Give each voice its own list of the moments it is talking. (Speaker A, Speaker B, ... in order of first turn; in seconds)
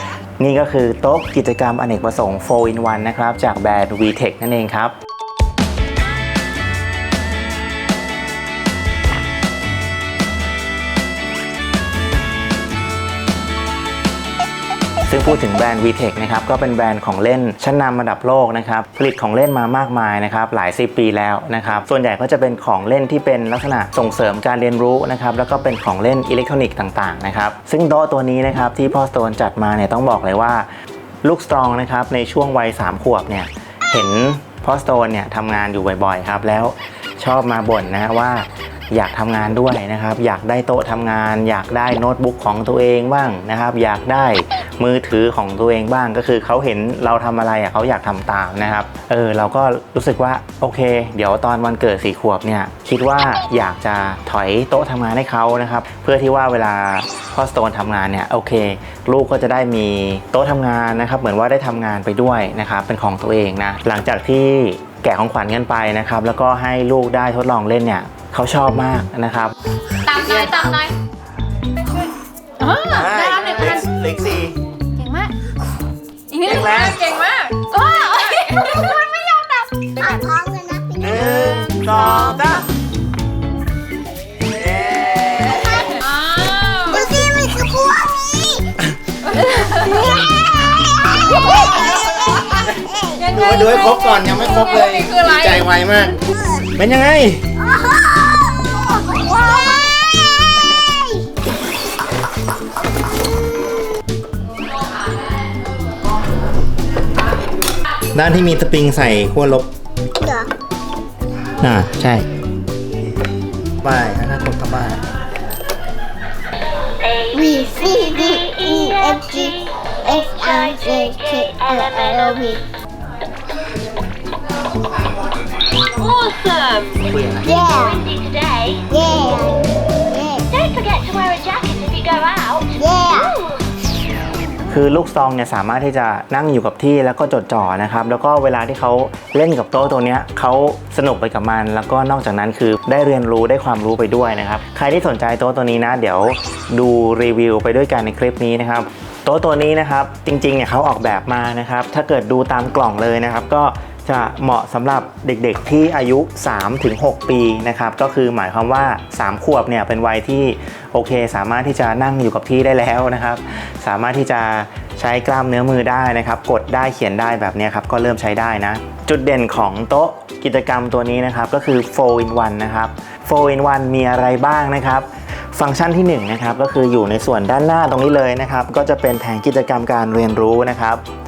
Speaker A: 0.4-4.9, 15.1-30.7, 31.2-69.5, 70.1-70.8, 72.9-74.5, 76.4-77.2, 81.0-82.7, 84.5-85.7, 93.3-96.2, 96.7-97.5, 108.1-109.7, 111.6-112.2, 113.8-115.0, 127.1-127.5, 134.7-181.0
Speaker B: 70.0-70.9, 72.6-73.9, 75.0-75.3, 76.3-80.1, 86.0-87.0, 89.3-89.9, 93.2-95.7
Speaker C: 78.4-82.1, 85.6-85.9, 86.8-88.7, 89.6-93.4, 96.2-96.7, 97.6-101.3, 110.2-110.5, 117.3-122.6, 127.4-128.0, 128.9-130.5, 132.7-133.3
Speaker D: 117.0-122.5, 125.9-128.9, 130.5-133.7